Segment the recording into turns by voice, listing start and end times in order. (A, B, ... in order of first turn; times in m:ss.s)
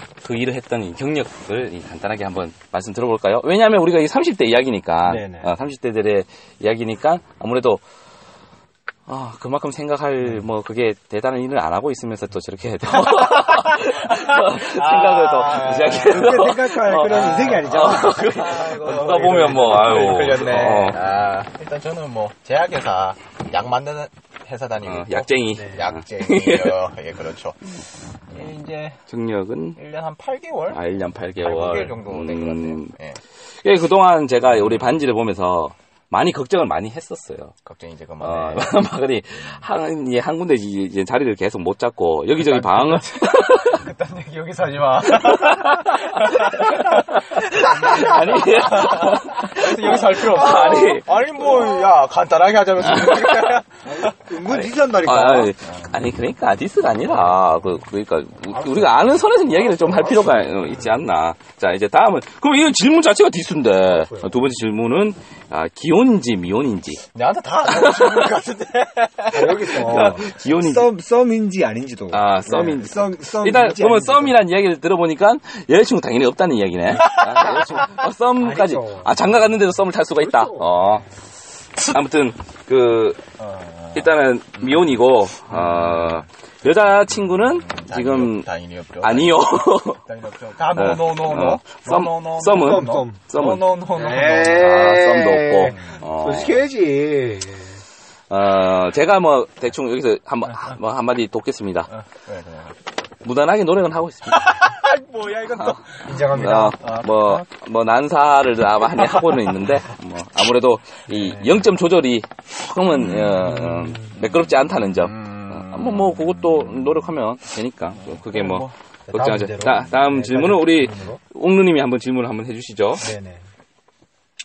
0:00.2-0:07.8 A
0:05.0-0:05.5 B
0:09.1-0:21.0 A
0:13.1-0:16.3 C
0:16.0-0:18.3 B
0:17.0-0:27.8 C
0:24.8-0:26.8 A
0:25.5-0:25.9 B
0:28.3-0:29.0 C
0:29.1-0:29.8 A
0:29.8-0:30.8 C
0:30.7-0:33.0 A
0:31.4-0:33.2 C
0:33.5-0:37.6 A
0:37.6-0:39.6 C
0:38.2-0:43.9 A
0:42.4-0:54.1 C
0:45.1-0:51.1 A
0:52.9-0:53.5 A
0:53.9-0:55.5 B
0:54.4-1:07.0 A
0:55.7-0:55.9 C
0:58.5-1:00.4 B
1:00.0-1:00.8 C
1:03.9-1:04.3 B
1:07.1-1:10.3 C
1:07.6-1:08.4 A
1:09.3-1:14.4 B
1:09.8-1:11.0 A
1:12.1-1:21.1 A
1:17.1-1:18.0 C
1:18.4-1:19.3 B
1:20.2-1:21.1 B
1:21.8-1:23.2 A
1:23.4-1:24.1 C
1:23.9-1:28.5 A
1:25.5-1:26.2 C
1:27.5-1:34.8 C
1:29.0-1:30.0 A
1:30.7-1:33.7 A
1:32.5-1:33.2 B
1:33.9-1:37.8 B
1:34.6-1:36.6 A
1:35.6-1:36.0 C
1:38.3-1:41.9 A
1:40.5-1:40.8 C
1:41.9-1:42.8 C
1:43.2-1:44.6 A
1:44.3-1:47.5 C
1:45.6-2:03.1 A
1:46.0-1:46.8 B
1:49.2-1:49.5 C
1:51.1-1:51.5 B
1:53.0-1:53.5 C
1:53.7-1:54.1 B
1:55.0-1:56.2 C
1:57.9-1:58.7 C
1:59.1-2:01.2 B
2:03.0-2:03.4 B